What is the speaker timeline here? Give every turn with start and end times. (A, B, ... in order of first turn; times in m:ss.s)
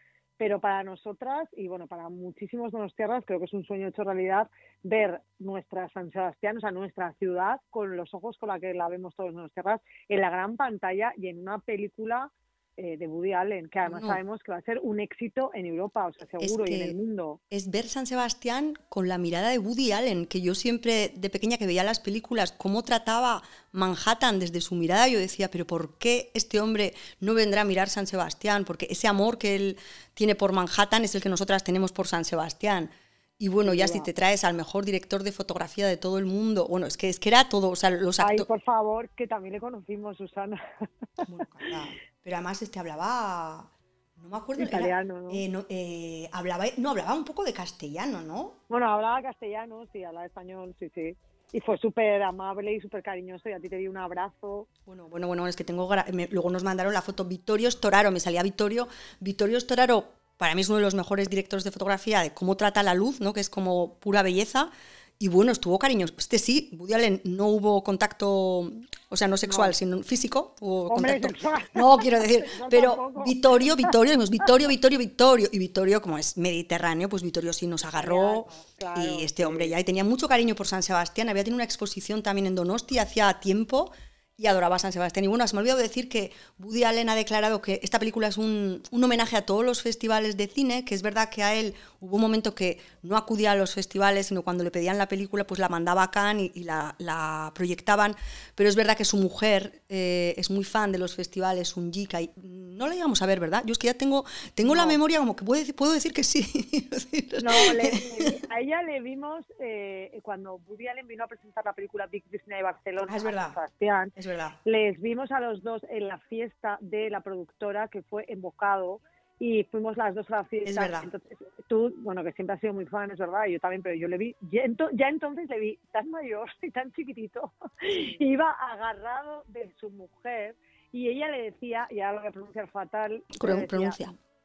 0:00.4-0:17.4 A
0:13.9-0:14.2 B
0:16.4-0:16.9 B
0:17.5-0:38.5 B
0:33.6-0:34.1 A
0:38.2-0:41.2 A
0:41.2-0:48.6 B
0:44.6-0:45.4 A
0:48.7-0:54.7 A
0:54.9-1:48.3 B
1:09.4-1:09.7 A
1:10.9-1:13.4 A
1:17.9-1:19.7 A
1:44.6-1:45.0 A
1:47.4-1:54.1 A
1:53.1-1:53.6 B
1:54.2-1:54.6 B
1:54.6-2:14.0 A
2:00.6-2:01.1 B
2:13.3-2:14.1 B